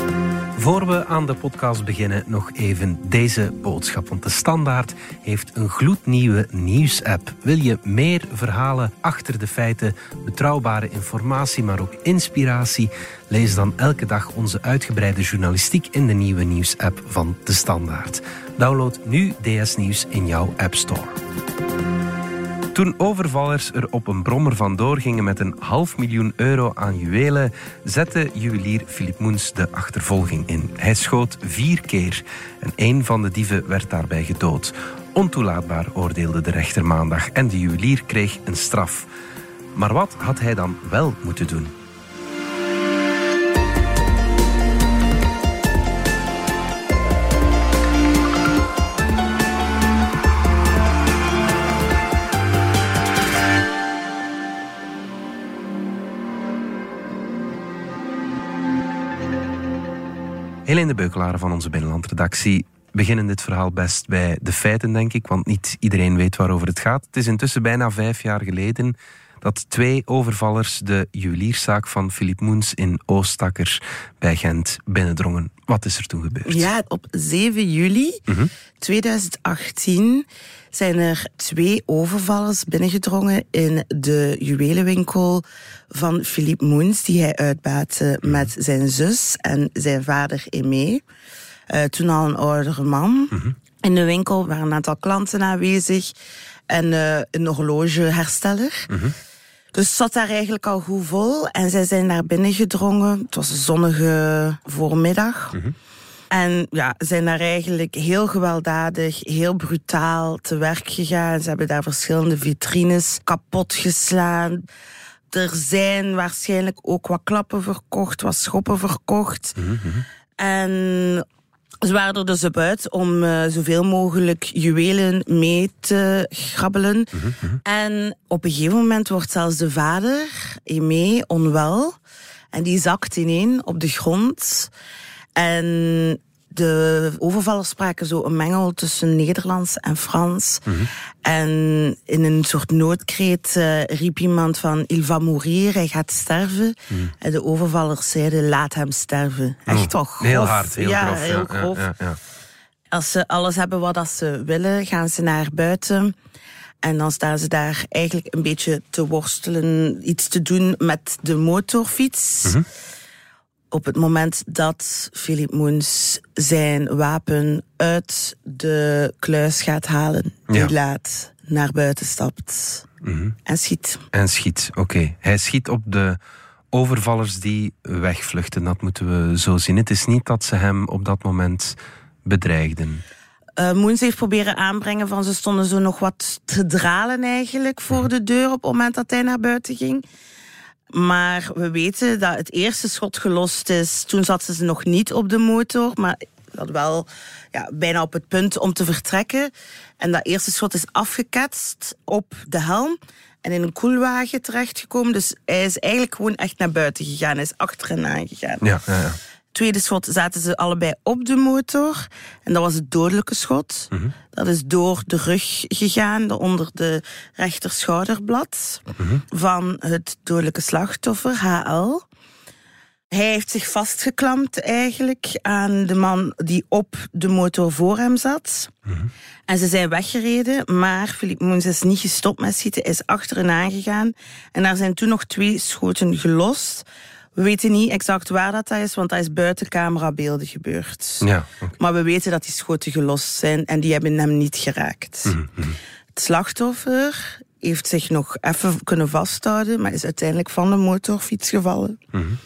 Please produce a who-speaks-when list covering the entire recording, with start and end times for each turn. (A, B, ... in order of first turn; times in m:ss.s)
0:00.6-0:21.2 A
0:22.7-0:39.1 A
0:39.8-0:41.7 A
1:00.7-1:16.7 A
1:16.5-1:18.2 B
1:18.8-1:31.0 B
1:31.7-1:36.1 B
1:36.7-1:38.9 B
1:38.9-1:39.2 A
1:39.7-1:45.6 B
1:46.3-1:54.6 B
1:55.3-1:59.6 B
1:59.6-2:00.0 A
2:00.4-2:01.2 B
2:01.8-2:07.1 B
2:07.2-2:07.5 A
2:07.6-2:12.0 B
2:12.5-2:14.7 B
2:15.4-2:20.6 B
2:21.2-2:31.9 B
2:29.7-2:32.2 A
2:32.9-2:36.1 B
2:36.8-2:42.6 B
2:43.7-2:52.8 B
2:53.0-2:53.4 A
2:53.5-2:54.0 B
2:54.1-2:56.2 A
2:56.7-3:03.0 A
3:03.6-3:10.0 B
3:10.9-3:28.6 B
3:28.6-3:29.2 A
3:29.5-3:42.0 B
3:43.1-3:48.7 B
3:49.5-4:01.3 B
4:01.2-4:01.8 A
4:01.8-4:05.3 B
4:05.3-4:05.8 A
4:06.1-4:12.0 B